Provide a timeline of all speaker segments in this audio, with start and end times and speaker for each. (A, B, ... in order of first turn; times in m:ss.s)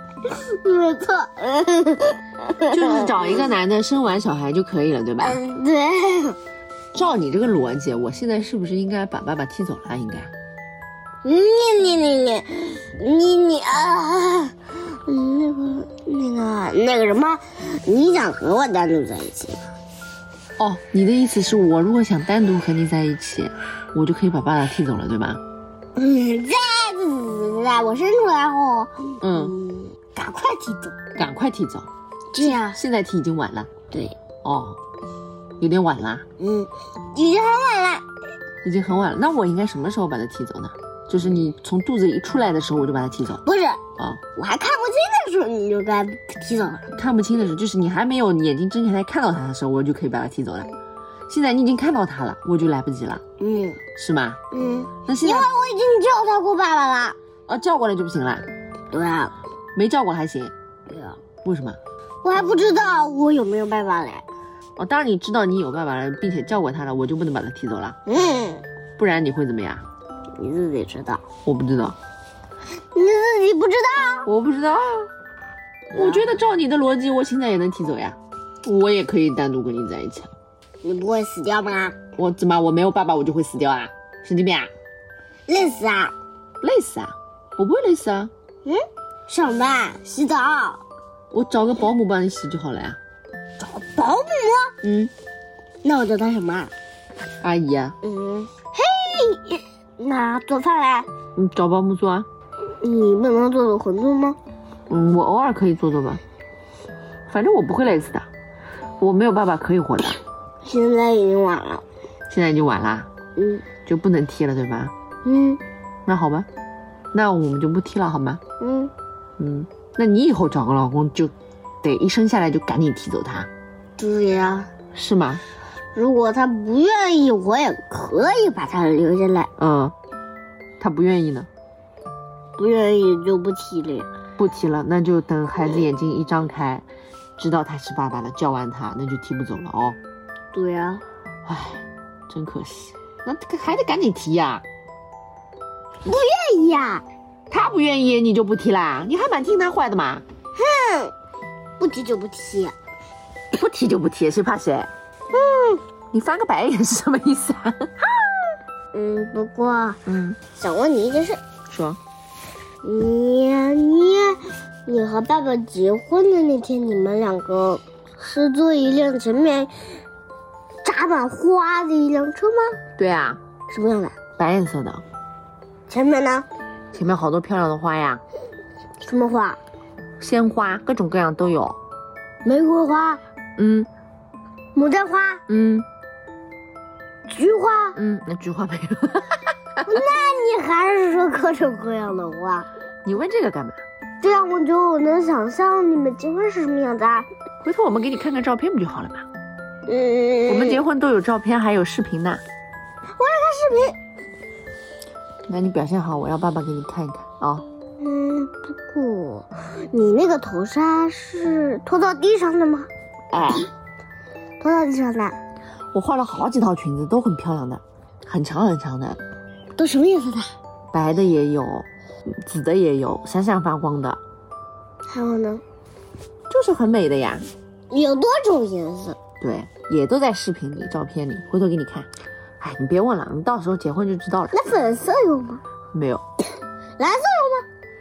0:00.2-0:03.5 A
0:02.7-0:05.4 B
0:05.2-0:06.4 A
0:06.9-0:10.3 B
0:11.2-0:19.6 A
0:20.6-0:25.4 B
0:26.0-0:31.0 A
0:29.2-0:29.5 B
0:31.1-0:31.9 B
0:32.3-0:32.8 A
0:32.4-0:33.7 B
0:33.9-0:34.2 A
0:34.4-0:34.8 B
0:35.6-0:36.2 B
0:36.4-0:38.0 A
0:38.6-0:43.4 B
0:43.4-0:43.8 A
0:44.0-0:44.2 B
0:44.4-0:46.8 A
0:46.9-0:50.7 B
0:51.3-0:53.2 B
0:53.4-0:53.8 A
0:54.0-0:54.4 B
0:54.5-0:57.2 A
0:55.0-0:55.5 B
0:57.5-0:58.5 B
0:58.9-0:59.3 A
0:59.7-1:00.5 B
1:00.9-1:01.2 A
1:01.4-1:01.8 B
1:02.2-1:04.2 A
1:04.8-1:08.0 B
1:08.1-1:08.6 A
1:09.0-1:09.8 B
1:10.4-1:11.2 A
1:11.4-1:12.0 B
1:12.9-1:14.3 A
1:14.2-1:15.1 B
1:15.9-1:20.3 B
1:15.9-1:16.4 A
1:20.8-1:22.0 A
1:22.1-1:24.7 B
1:25.5-1:26.1 A
1:26.6-1:28.3 B
1:28.6-1:30.8 A
1:31.3-1:33.0 B
1:33.6-1:34.8 A
1:34.8-1:35.1 B
1:35.8-1:36.7 A
1:37.4-1:38.0 B
1:38.0-1:41.1 A
1:41.3-1:42.3 B
1:42.8-1:44.4 A
1:44.9-1:46.2 B
1:47.3-1:48.2 B
1:49.0-1:50.2 B
1:50.6-1:51.8 A
1:52.3-1:53.1 B
1:53.4-1:53.7 A
1:53.8-1:54.9 B
1:55.2-1:55.6 A
1:56.0-1:56.5 B
1:57.1-1:58.4 B
1:58.6-1:58.9 A
1:59.4-2:03.5 B
2:04.0-2:04.7 A
2:04.9-2:05.4 B
2:05.9-2:09.5 A
2:09.6-2:09.9 B
2:10.8-2:11.5 B
2:12.6-2:14.1 A
2:14.4-2:16.8 B
2:17.4-2:20.0 B
2:20.5-2:21.0 A
2:21.4-2:24.6 B
2:26.0-2:27.0 A
2:27.5-2:30.2 B
2:30.6-2:31.1 A
2:31.8-2:32.7 A
2:33.5-2:34.9 B
2:35.3-2:35.8 A
2:36.1-2:38.1 B
2:38.9-2:40.0 A
2:40.0-2:40.4 B
2:40.6-2:41.4 A
2:41.7-2:42.0 B
2:42.8-2:49.7 A
2:50.8-2:52.8 A
2:53.0-2:53.4 B
2:53.7-2:54.2 A
2:54.4-2:55.0 B
2:55.9-2:56.5 A
2:56.9-2:58.2 B
2:59.0-2:59.6 A
3:00.2-3:01.8 B
3:02.4-3:03.2 A
3:03.6-3:03.9 B
3:04.7-3:05.4 A
3:05.5-3:05.8 B
3:07.3-3:08.0 A
3:08.0-3:09.8 B
3:09.8-3:12.7 A
3:13.0-3:13.8 B
3:14.2-3:17.3 A
3:17.6-3:19.2 B
3:19.9-3:20.8 A
3:20.5-3:22.4 B
3:23.2-3:24.0 A
3:25.5-3:27.6 B
3:28.0-3:32.9 A
3:33.3-3:33.7 B
3:34.6-3:35.4 A
3:35.9-3:39.2 B
3:39.8-3:40.5 A
3:40.9-3:44.2 B
3:45.1-3:45.6 A
3:46.5-3:47.5 B
3:47.9-3:49.2 A
3:49.4-3:52.1 B
3:52.6-3:54.6 B
3:54.5-3:55.6 A
3:55.9-3:56.2 B
3:57.0-3:57.6 A